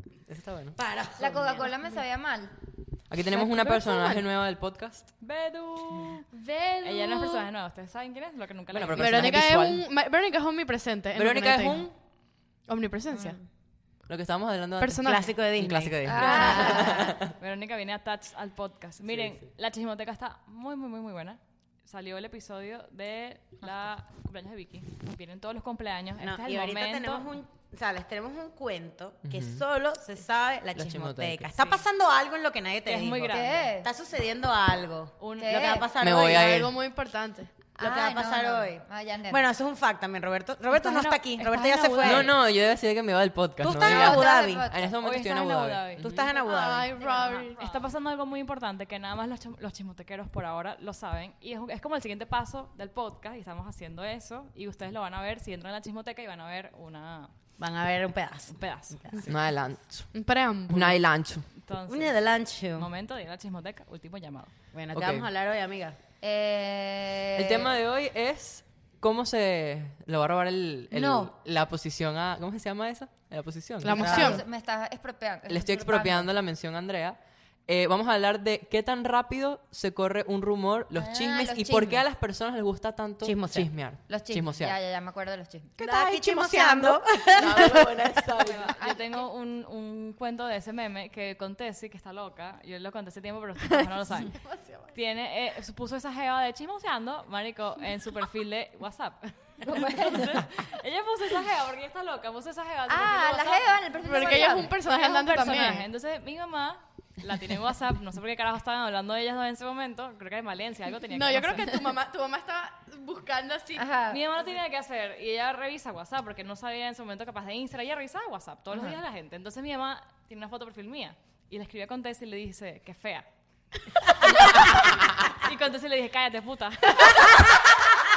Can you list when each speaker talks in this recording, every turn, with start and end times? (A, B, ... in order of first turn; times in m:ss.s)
0:00.3-0:00.8 A
0:00.8-0:01.6 B
0:01.2-0:02.6 C
0:03.1-0:05.1 A
0:03.3-0:04.3 D
0:05.2-0:06.2 E
0:06.3-0:07.5 D
0:06.8-0:09.3 E
0:08.7-0:09.8 A
0:08.9-0:11.9 D
0:11.1-0:11.9 A
0:12.7-0:13.4 D
0:13.1-0:13.4 C
0:14.1-0:17.3 A
0:14.8-0:15.3 D
0:15.0-0:17.0 B
0:16.0-0:17.2 C
0:17.4-0:27.3 E
0:19.1-0:19.4 A
0:26.2-0:36.6 B
0:29.2-0:29.6 A
0:30.7-0:31.5 A
0:31.6-0:31.8 E
0:32.8-0:33.7 E
0:33.3-0:33.9 C
0:35.2-0:35.6 E
0:35.4-0:35.9 C
0:36.0-0:36.7 A
0:36.3-0:37.7 D
0:37.7-0:42.3 B
0:37.8-0:39.4 C
0:40.7-0:42.3 E
0:42.0-0:46.2 A
0:43.6-0:44.7 B
0:43.8-0:44.9 C
0:45.0-0:57.3 E
0:46.0-0:47.0 B
0:46.4-0:47.8 D
0:47.0-0:47.4 C
0:57.6-0:59.3 B
0:58.5-0:59.3 E
0:59.2-1:01.4 A
1:00.1-1:01.0 D
1:01.5-1:04.5 E
1:01.9-1:02.9 B
1:04.7-1:06.0 B
1:04.9-1:05.3 A
1:06.2-1:07.8 C
1:07.4-1:14.3 A
1:10.9-1:11.3 C
1:13.8-1:14.4 D
1:13.9-1:16.3 C
1:14.0-1:14.3 B
1:15.5-1:24.7 A
1:20.9-1:22.0 C
1:23.2-1:23.7 B
1:24.1-1:25.7 C
1:25.8-1:28.2 B
1:25.9-1:27.0 D
1:27.4-1:28.8 A
1:28.4-1:34.4 E
1:28.8-1:29.0 C
1:34.2-1:34.9 D
1:34.9-1:43.8 E
1:39.6-1:40.4 C
1:42.9-1:45.2 C
1:44.0-1:45.9 D
1:44.6-1:51.9 E
1:51.1-1:53.8 D
1:53.8-1:54.2 C
1:54.1-2:03.3 E
2:04.2-2:04.6 D
2:04.2-2:07.2 E
2:07.0-2:07.6 D